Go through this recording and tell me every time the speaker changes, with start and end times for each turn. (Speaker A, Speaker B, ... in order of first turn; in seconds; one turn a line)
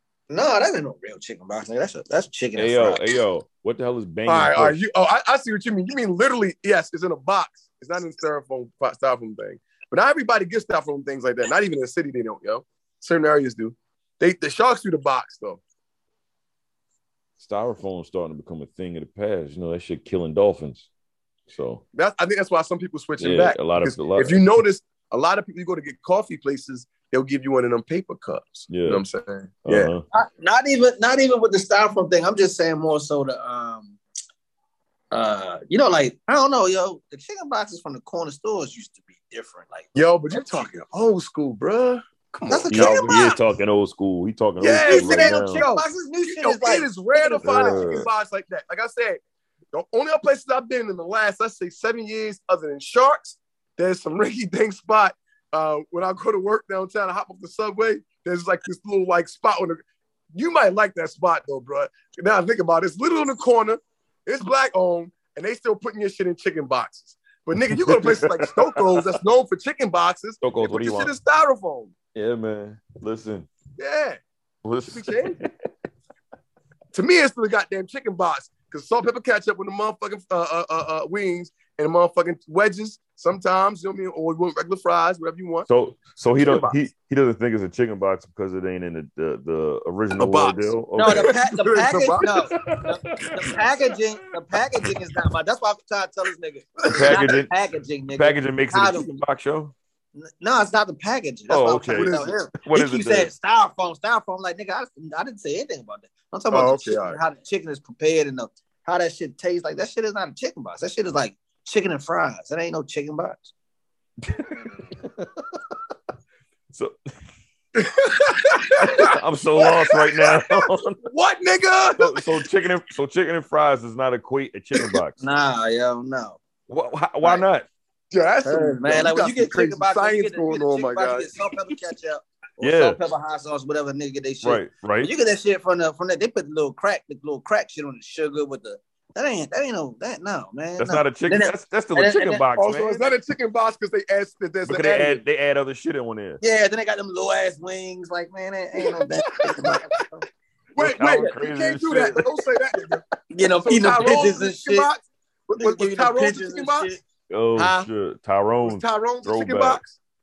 Speaker A: 0.3-3.2
Speaker B: 2.6-4.8
Speaker C: 4.3-15.6
Speaker B: 17.4-20.9
Speaker B: 21.5-21.8
Speaker C: 21.9-29.9
Speaker B: 23.2-24.4
Speaker B: 28.7-29.0
Speaker B: 29.6-30.0
Speaker A: 30.1-34.0
Speaker A: 35.1-40.7
Speaker C: 40.0-43.2
Speaker A: 42.5-43.4
Speaker B: 42.7-45.7
Speaker C: 44.6-49.2
Speaker A: 44.8-47.9
Speaker B: 47.4-48.1
Speaker C: 49.7-59.8
Speaker C: 60.3-71.9
Speaker B: 67.7-69.1
Speaker B: 70.4-71.1
Speaker B: 72.2-73.5
Speaker C: 73.8-74.2
Speaker B: 74.6-75.5
Speaker C: 74.9-75.4
Speaker C: 76.9-85.7
Speaker B: 85.7-91.4
Speaker C: 86.3-86.7
Speaker C: 90.2-92.4
Speaker A: 91.0-99.1
Speaker B: 92.6-93.4
Speaker C: 96.8-97.3
Speaker B: 96.9-97.5
Speaker B: 98.1-99.7
Speaker A: 100.2-113.5
Speaker B: 101.5-103.3
Speaker C: 101.9-102.3
Speaker C: 106.5-107.2
Speaker B: 114.2-115.3
Speaker C: 117.8-120.5
Speaker B: 118.8-121.0
Speaker C: 121.0-122.2
Speaker B: 122.0-125.2
Speaker A: 125.2-126.4
Speaker B: 126.7-127.7
Speaker C: 128.1-131.4
Speaker A: 128.4-142.4
Speaker B: 132.6-133.0
Speaker B: 134.4-135.1
Speaker B: 140.8-143.1
Speaker C: 142.6-145.2
Speaker B: 144.7-146.4
Speaker A: 146.4-150.2
Speaker C: 148.8-149.8
Speaker B: 150.8-152.2
Speaker C: 150.8-153.0
Speaker A: 153.3-154.9
Speaker C: 153.6-156.9
Speaker A: 155.6-157.0
Speaker B: 157.3-159.8
Speaker A: 157.6-157.9
Speaker C: 158.6-160.0